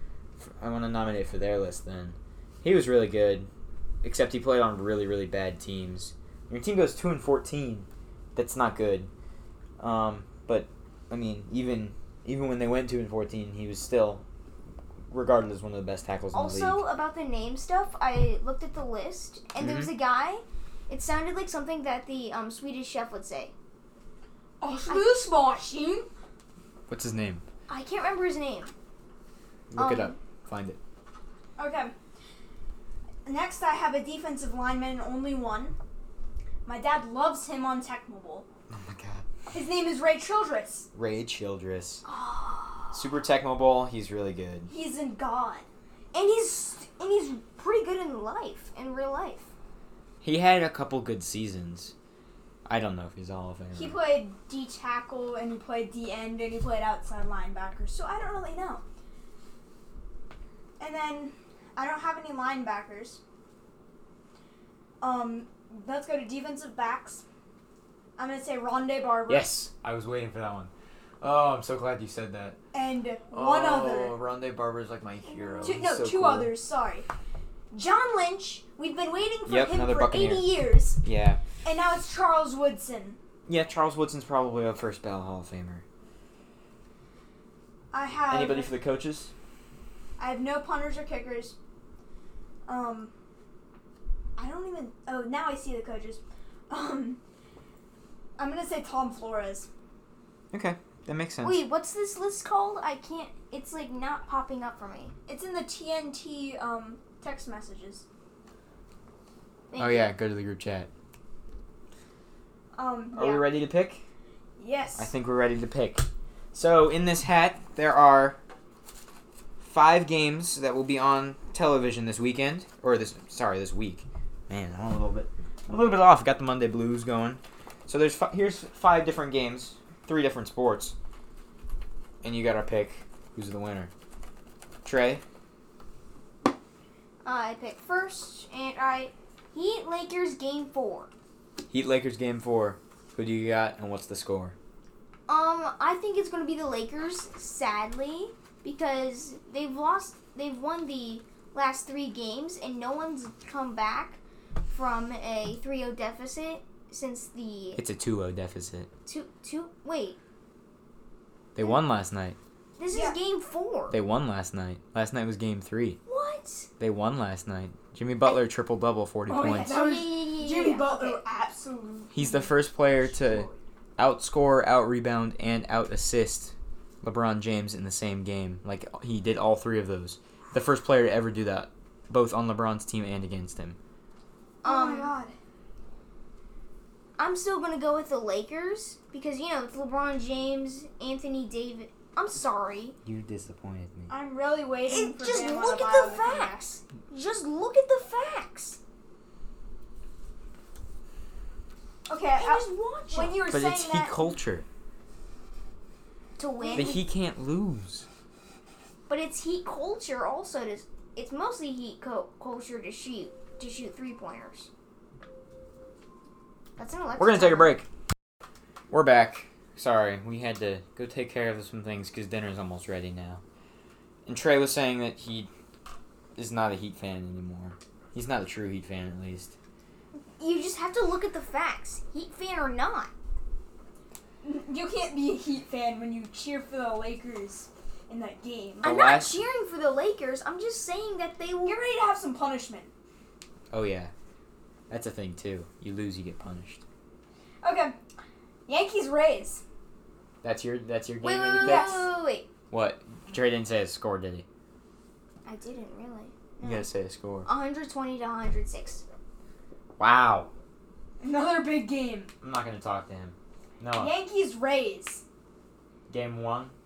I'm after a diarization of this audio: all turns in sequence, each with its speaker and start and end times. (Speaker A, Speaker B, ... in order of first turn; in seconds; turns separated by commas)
Speaker A: 0.4-3.5, Speaker A: 4.0-9.1, Speaker A: 9.8-14.2, Speaker A: 15.1-16.8, Speaker B: 16.3-23.5, Speaker A: 19.6-19.9, Speaker C: 24.6-26.1, Speaker B: 24.9-25.2, Speaker A: 26.9-27.4, Speaker B: 27.7-28.7, Speaker A: 29.7-30.8, Speaker B: 29.8-30.1, Speaker C: 31.6-31.9, Speaker C: 33.2-35.8, Speaker C: 36.6-38.5, Speaker A: 38.7-39.2, Speaker C: 39.5-40.9, Speaker A: 40.9-42.0, Speaker B: 42.0-42.9, Speaker A: 42.9-44.7, Speaker C: 44.7-45.6, Speaker B: 46.1-49.5, Speaker A: 50.2-51.9, Speaker A: 52.6-54.0, Speaker C: 53.7-58.8, Speaker C: 60.8-63.2, Speaker C: 65.0-67.2, Speaker C: 68.2-69.5, Speaker A: 69.3-72.6, Speaker C: 72.7-74.2, Speaker A: 73.3-76.5, Speaker B: 75.2-75.8, Speaker C: 75.6-77.1, Speaker C: 77.7-81.0, Speaker A: 79.5-80.5, Speaker A: 81.0-81.4, Speaker C: 81.6-83.2, Speaker A: 83.5-85.8, Speaker C: 87.9-88.7, Speaker A: 88.3-89.3, Speaker C: 90.2-91.5, Speaker C: 92.7-93.1, Speaker C: 94.4-97.2, Speaker C: 98.4-99.7, Speaker A: 100.5-101.6, Speaker B: 101.4-105.1, Speaker C: 105.3-108.0, Speaker B: 109.7-110.1, Speaker A: 109.8-110.9, Speaker C: 112.8-113.5, Speaker A: 113.1-114.0, Speaker C: 114.6-115.1, Speaker A: 115.0-118.4, Speaker A: 119.6-130.9, Speaker A: 132.2-133.9, Speaker A: 134.8-135.2, Speaker B: 137.2-141.1, Speaker A: 141.7-144.5, Speaker B: 145.3-157.8, Speaker A: 157.8-158.9, Speaker B: 159.1-160.2, Speaker A: 161.5-162.4, Speaker B: 162.8-164.0, Speaker C: 162.9-163.2, Speaker A: 163.9-166.0, Speaker B: 166.1-166.7, Speaker A: 166.8-169.7, Speaker C: 169.3-173.6, Speaker B: 169.7-171.2, Speaker A: 172.1-183.8, Speaker B: 184.6-185.1, Speaker C: 184.6-185.3, Speaker B: 187.2-193.0, Speaker A: 193.0-194.1, Speaker C: 194.1-196.7, Speaker B: 194.9-198.8, Speaker C: 202.1-204.2, Speaker B: 202.3-203.4, Speaker A: 203.5-204.7, Speaker B: 206.4-207.1, Speaker C: 206.6-207.0, Speaker A: 206.7-208.1, Speaker B: 209.1-214.7, Speaker B: 216.8-217.8, Speaker A: 217.2-217.8, Speaker A: 218.9-223.4, Speaker A: 224.2-225.5, Speaker A: 226.3-229.5, Speaker B: 230.2-233.1, Speaker C: 234.4-238.9, Speaker B: 238.8-241.8, Speaker A: 238.8-239.4, Speaker C: 241.6-242.9, Speaker A: 243.7-244.1, Speaker A: 244.9-246.8, Speaker C: 247.6-247.9, Speaker C: 248.7-249.6, Speaker A: 250.4-252.1, Speaker B: 251.2-252.5, Speaker C: 251.6-252.1, Speaker A: 252.7-254.4, Speaker B: 255.4-256.9, Speaker A: 256.6-257.5, Speaker B: 257.4-259.0, Speaker A: 260.0-260.5, Speaker C: 261.2-262.3, Speaker A: 262.4-264.1, Speaker C: 263.9-265.2, Speaker A: 266.1-266.7